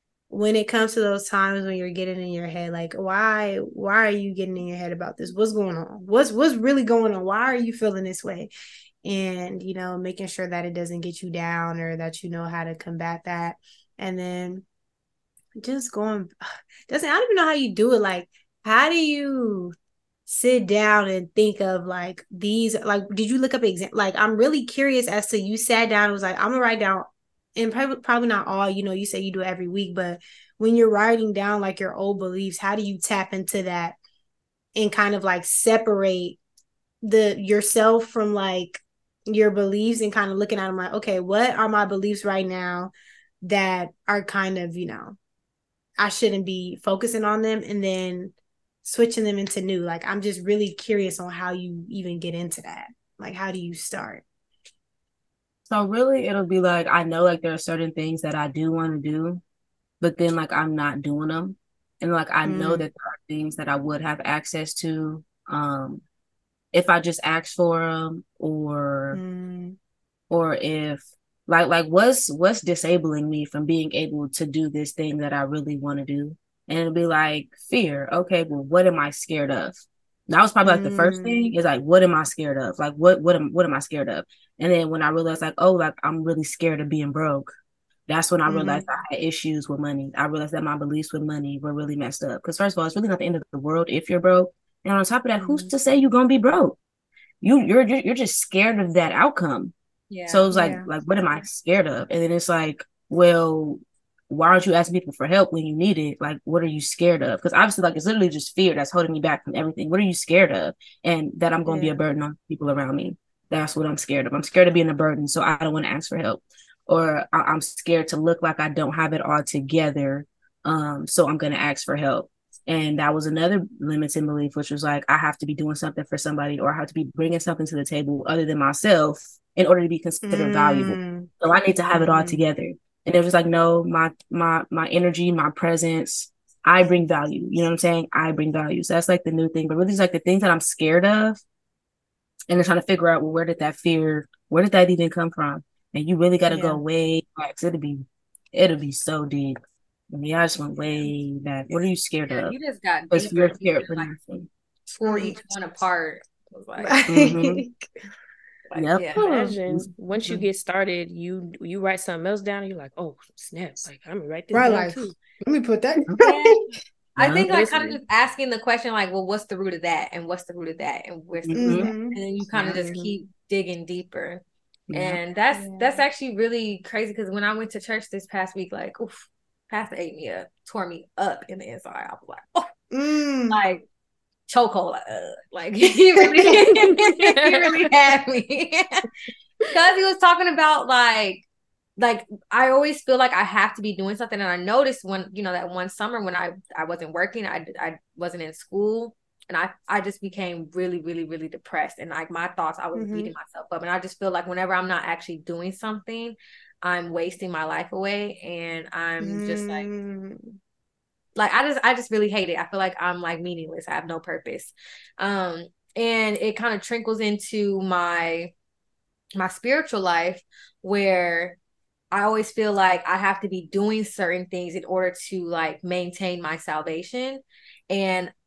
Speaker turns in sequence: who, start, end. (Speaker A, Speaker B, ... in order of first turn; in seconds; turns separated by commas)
Speaker A: 0.3-8.5, Speaker A: 9.0-14.7, Speaker A: 15.6-16.4, Speaker A: 16.9-19.8, Speaker A: 20.3-34.0, Speaker A: 34.8-36.4, Speaker A: 37.0-45.2, Speaker A: 46.0-54.2, Speaker B: 55.7-59.4, Speaker B: 60.0-66.0, Speaker A: 62.4-62.9, Speaker B: 66.7-69.2, Speaker A: 69.1-69.8, Speaker B: 70.3-87.5, Speaker A: 80.6-81.5, Speaker B: 88.1-96.8, Speaker A: 88.5-88.8, Speaker A: 95.4-95.7, Speaker B: 97.4-99.7, Speaker C: 100.1-100.6, Speaker B: 100.3-141.4, Speaker A: 100.5-100.9, Speaker A: 111.7-112.0, Speaker A: 130.3-131.3, Speaker A: 131.9-132.4, Speaker B: 142.5-149.6, Speaker A: 146.5-146.8, Speaker B: 150.1-152.6, Speaker C: 152.3-154.1, Speaker B: 153.1-154.5, Speaker C: 154.9-157.0, Speaker A: 155.0-155.4, Speaker A: 156.8-157.9, Speaker B: 157.1-157.6, Speaker C: 158.7-159.2, Speaker B: 158.8-160.4, Speaker D: 159.2-165.2, Speaker A: 164.5-166.6, Speaker C: 166.2-182.6, Speaker B: 167.2-167.7, Speaker D: 167.5-168.0, Speaker B: 171.4-171.9, Speaker A: 171.6-173.2, Speaker B: 172.5-172.8, Speaker B: 174.9-175.2, Speaker A: 175.5-176.1, Speaker A: 182.9-183.6, Speaker C: 183.5-183.8, Speaker C: 184.5-189.1, Speaker A: 186.2-186.7, Speaker D: 186.6-187.9, Speaker C: 189.7-191.4, Speaker C: 192.0-209.9, Speaker A: 202.9-203.3, Speaker A: 209.2-210.6, Speaker C: 211.4-218.5, Speaker C: 219.4-221.6, Speaker C: 222.1-228.3